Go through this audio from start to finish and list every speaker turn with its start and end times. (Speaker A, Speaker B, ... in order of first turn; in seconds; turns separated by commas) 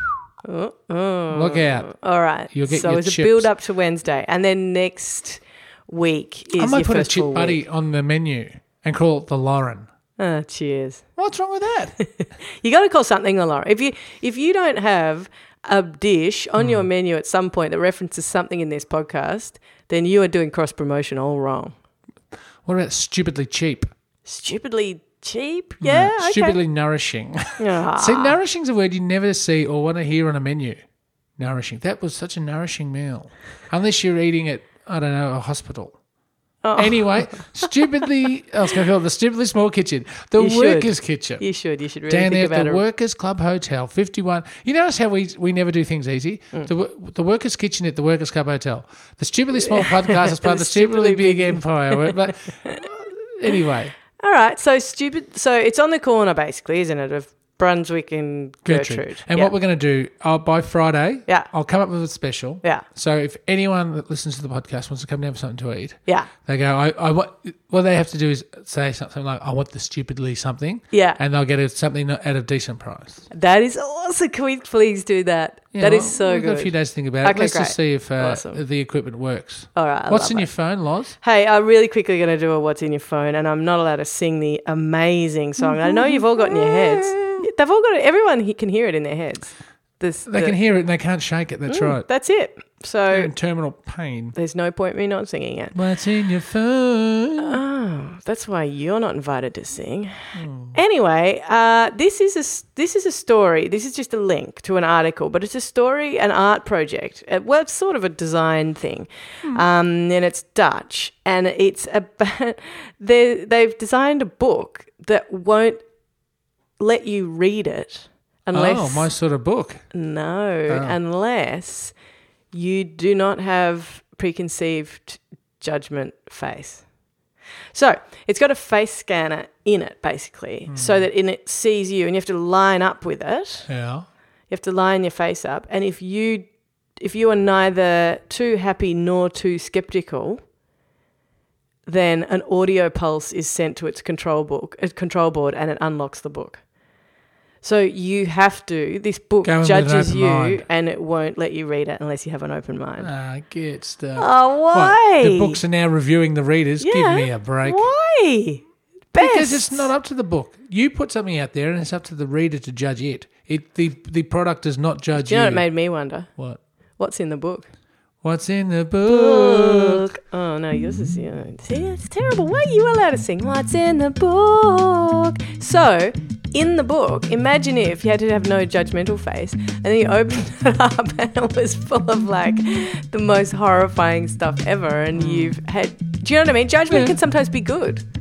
Speaker A: 0.4-7.6, Speaker B: 1.3-1.9, Speaker B: 2.5-3.5, Speaker B: 6.6-9.9, Speaker A: 10.2-11.0, Speaker B: 11.2-12.0, Speaker A: 12.0-21.7, Speaker B: 16.6-16.8, Speaker B: 22.6-23.9, Speaker A: 24.2-26.6, Speaker B: 25.8-30.8, Speaker A: 27.6-28.4, Speaker B: 31.4-36.0, Speaker A: 36.6-37.1, Speaker B: 36.8-41.4, Speaker A: 40.4-42.8, Speaker B: 42.1-53.9, Speaker A: 49.6-52.9, Speaker A: 54.2-59.5, Speaker B: 58.6-73.3, Speaker A: 70.9-71.2, Speaker A: 73.3-78.6, Speaker B: 75.7-81.2, Speaker A: 79.7-80.5, Speaker A: 81.2-90.6, Speaker B: 85.6-87.5, Speaker B: 90.3-92.0, Speaker A: 91.7-93.3, Speaker B: 93.1-94.3, Speaker A: 94.3-95.7, Speaker B: 95.7-97.6, Speaker A: 97.4-100.1, Speaker B: 100.3-100.8, Speaker A: 100.7-115.8, Speaker A: 116.8-119.1, Speaker B: 118.5-119.8, Speaker A: 119.9-121.9, Speaker B: 120.7-121.0, Speaker A: 122.5-126.8, Speaker A: 127.7-133.7, Speaker B: 130.7-131.1, Speaker B: 133.7-134.1, Speaker A: 134.5-140.4, Speaker A: 141.8-146.6, Speaker A: 147.6-153.1, Speaker B: 149.4-150.6, Speaker B: 153.0-157.8, Speaker A: 154.2-155.6, Speaker A: 156.8-159.9, Speaker B: 159.2-165.7, Speaker A: 165.1-166.3, Speaker A: 167.0-167.7, Speaker B: 168.2-170.1, Speaker A: 169.1-188.0, Speaker B: 185.1-185.5, Speaker B: 186.9-187.2